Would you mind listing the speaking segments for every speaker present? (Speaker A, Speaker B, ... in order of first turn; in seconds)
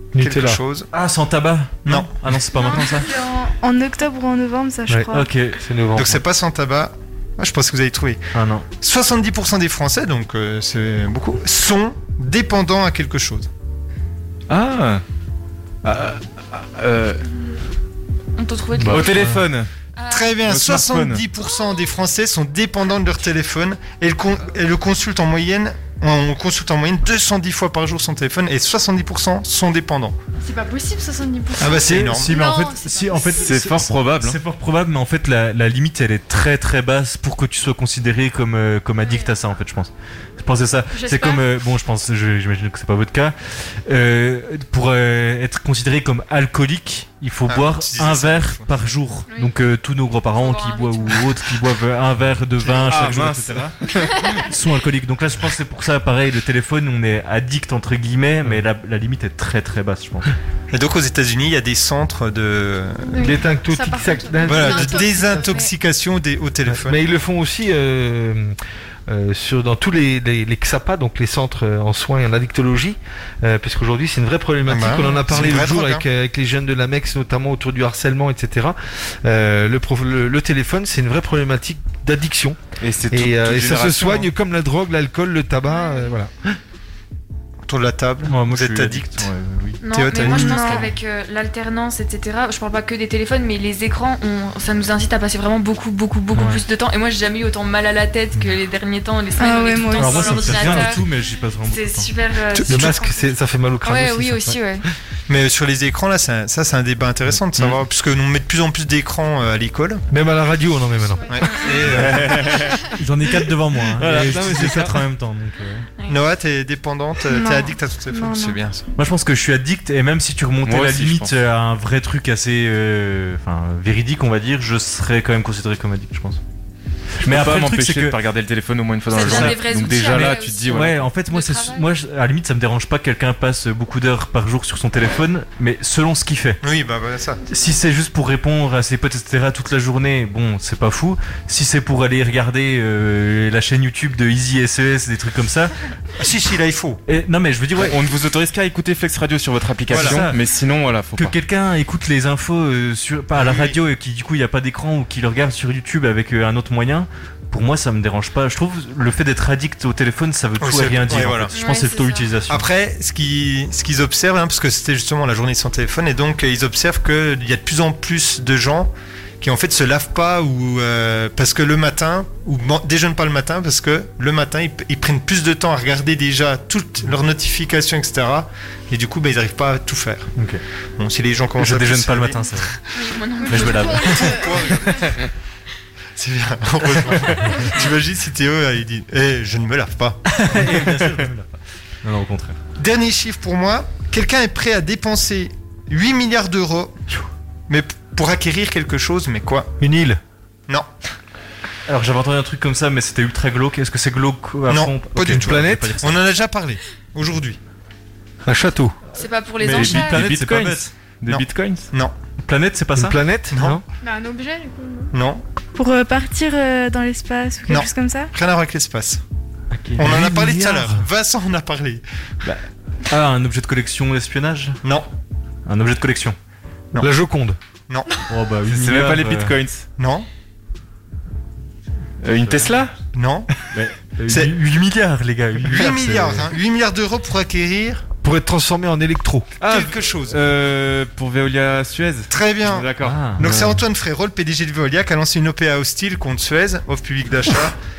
Speaker A: 0.1-0.6, 4.9-6.2, 63.2-65.6, 66.7-68.5, 69.1-82.6, 83.1-86.6, 100.4-100.9, 102.7-104.6, 110.1-113.0, 113.9-115.0, 199.8-200.2, 205.3-206.0, 208.4-208.9, 212.9-213.8, 219.9-221.1, 227.0-227.6, 238.2-239.6
Speaker B: 0.2-0.9, 1.9-2.1, 5.9-8.2, 8.8-13.5, 20.1-30.1, 31.6-33.2, 47.5-48.7, 52.7-52.9, 60.7-63.4, 64.4-67.1, 74.7-76.0, 87.7-89.3, 89.8-90.9, 102.5-103.1, 105.3-110.0, 111.3-112.4, 116.1-118.8, 136.6-137.4, 146.2-147.0, 149.9-150.2, 153.3-153.8, 160.6-161.5, 162.5-180.3, 181.0-182.6, 184.1-185.3, 186.2-190.2, 192.8-197.0, 197.7-199.8, 204.7-207.6, 209.7-210.0, 211.3-212.1, 213.5-213.8, 215.1-215.4, 217.7-219.2, 220.0-222.0, 227.9-228.2, 230.0-230.3, 233.1-233.5, 234.3-234.5, 235.6-238.1, 239.6-240.4, 242.3-247.8
Speaker C: 0.9-3.1, 5.1-5.6, 8.3-8.6, 31.9-60.3, 88.3-89.8, 96.3-96.6, 99.9-102.1, 113.0-115.9, 119.0-126.4, 127.2-128.2, 129.1-129.6, 130.1-136.6, 137.4-145.7, 147.1-148.0, 149.9-150.4, 151.1-162.7, 180.4-180.6, 181.6-182.8, 183.5-184.4, 190.3-191.5, 192.0-192.6, 201.9-206.0, 209.7-210.9, 212.4-213.2, 223.1-224.8, 225.7-226.4, 228.3-229.6, 232.3-232.8, 233.7-236.5, 243.0-243.7
Speaker D: 2.6-5.3, 90.2-90.9, 99.4-100.8, 117.3-118.6, 215.8-218.3
Speaker E: 14.5-15.0, 15.8-17.2, 18.9-19.7, 20.4-21.2, 33.4-34.4, 52.8-54.1, 82.8-84.3, 88.5-89.7, 111.9-112.8, 120.6-121.4, 127.2-131.1, 147.8-151.3, 209.6-211.9, 228.7-229.9, 232.2-232.9, 239.6-243.2
Speaker F: 18.4-19.3, 20.0-20.4, 50.3-51.3, 89.8-101.1, 101.6-104.9, 129.1-131.9, 161.5-162.3, 183.0-184.2, 209.1-210.2
Speaker G: 30.4-33.6, 39.0-39.3, 40.9-41.4, 63.0-65.7, 111.1-111.9, 183.4-185.0, 214.0-215.1